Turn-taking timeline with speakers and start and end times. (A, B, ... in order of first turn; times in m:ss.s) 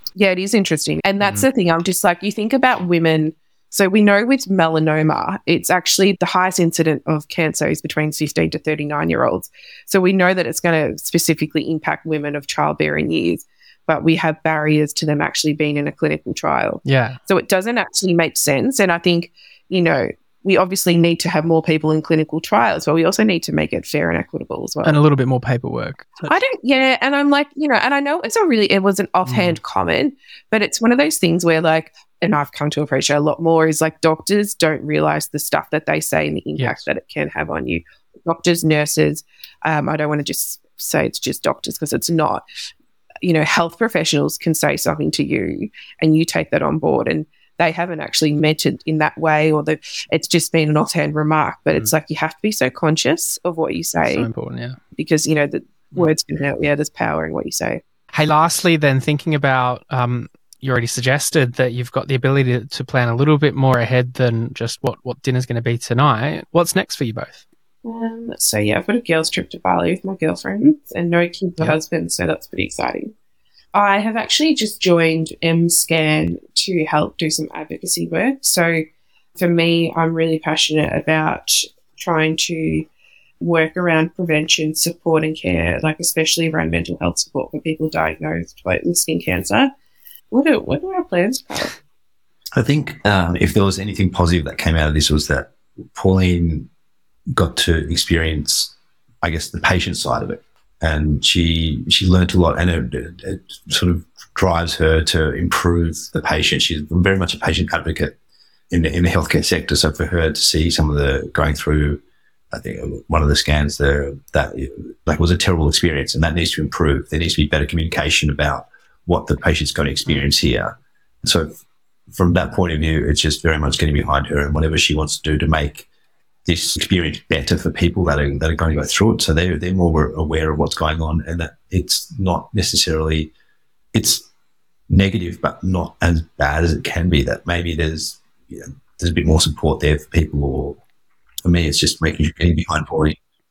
0:00.2-0:25.0 A
0:16.8-0:17.2 B
0:24.8-0:26.2 B
0:26.3-0:42.4 A
0:29.3-0:29.6 B
0:36.6-0:36.9 B
0:43.2-0:54.3 A
0:54.0-0:54.8 B
0:55.0-0:57.8 A
0:58.1-1:07.4 B
1:07.8-1:13.1 A
1:13.7-1:18.8 A
1:19.4-1:22.9 A
1:23.4-1:29.7 A
1:30.3-1:31.7 A
1:32.5-1:36.7 C
1:37.3-1:48.2 C
1:48.7-1:52.0 C
1:52.5-2:01.6 C
2:02.1-2:05.9 C
2:06.4-2:13.3 C
2:13.9-2:14.3 C
2:14.9-2:20.8 C
2:21.4-2:23.2 C